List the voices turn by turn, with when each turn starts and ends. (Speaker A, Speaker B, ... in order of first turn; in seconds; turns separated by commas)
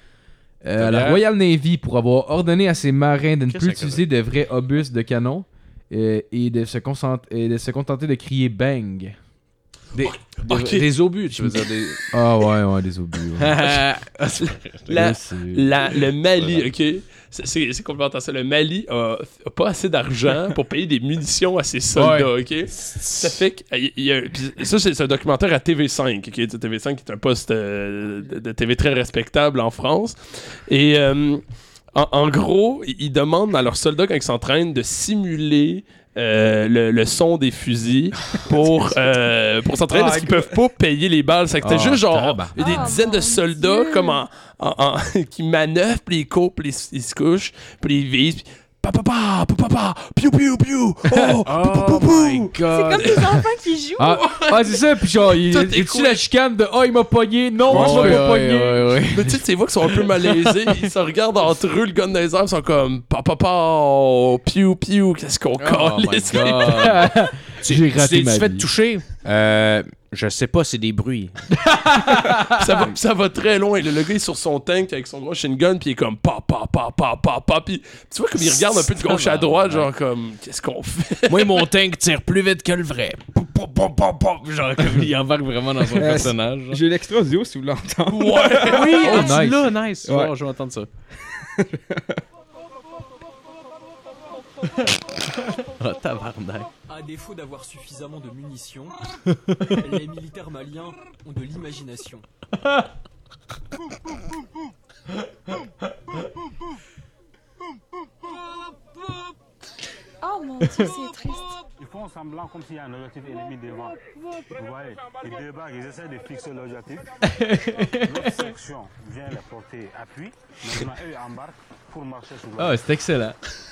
Speaker A: 0.6-9.2, Speaker B: 0.8-1.2, Speaker B: 3.5-4.1, Speaker B: 9.9-12.2, Speaker C: 10.0-10.9, Speaker A: 12.1-13.6, Speaker B: 13.4-15.2, Speaker C: 14.9-31.4, Speaker A: 14.9-15.7, Speaker B: 16.4-16.7, Speaker A: 22.0-22.2, Speaker B: 22.7-23.4, Speaker C: 31.9-53.4, Speaker B: 38.5-38.8, Speaker D: 39.9-40.5, Speaker A: 41.6-42.6, Speaker B: 41.7-42.4, Speaker E: 42.5-44.2, Speaker A: 51.1-51.4, Speaker B: 51.4-53.3, Speaker E: 52.7-54.2, Speaker A: 54.0-59.0, Speaker C: 54.2-56.2, Speaker B: 57.7-59.4, Speaker C: 57.7-58.3, Speaker C: 59.1-67.0, Speaker B: 65.6-71.5, Speaker A: 66.8-68.7, Speaker A: 71.6-72.7, Speaker C: 72.5-81.7, Speaker B: 78.4-79.9, Speaker B: 81.3-86.8, Speaker D: 85.9-89.0, Speaker C: 88.1-89.3, Speaker B: 88.5-90.9, Speaker A: 89.0-89.7, Speaker D: 90.0-90.4, Speaker D: 91.6-92.2, Speaker B: 95.6-96.7, Speaker F: 96.9-99.0, Speaker F: 99.6-102.2, Speaker E: 110.2-111.5, Speaker G: 111.8-114.0, Speaker G: 114.5-117.1, Speaker A: 117.3-118.4, Speaker G: 117.8-122.8, Speaker A: 122.6-123.4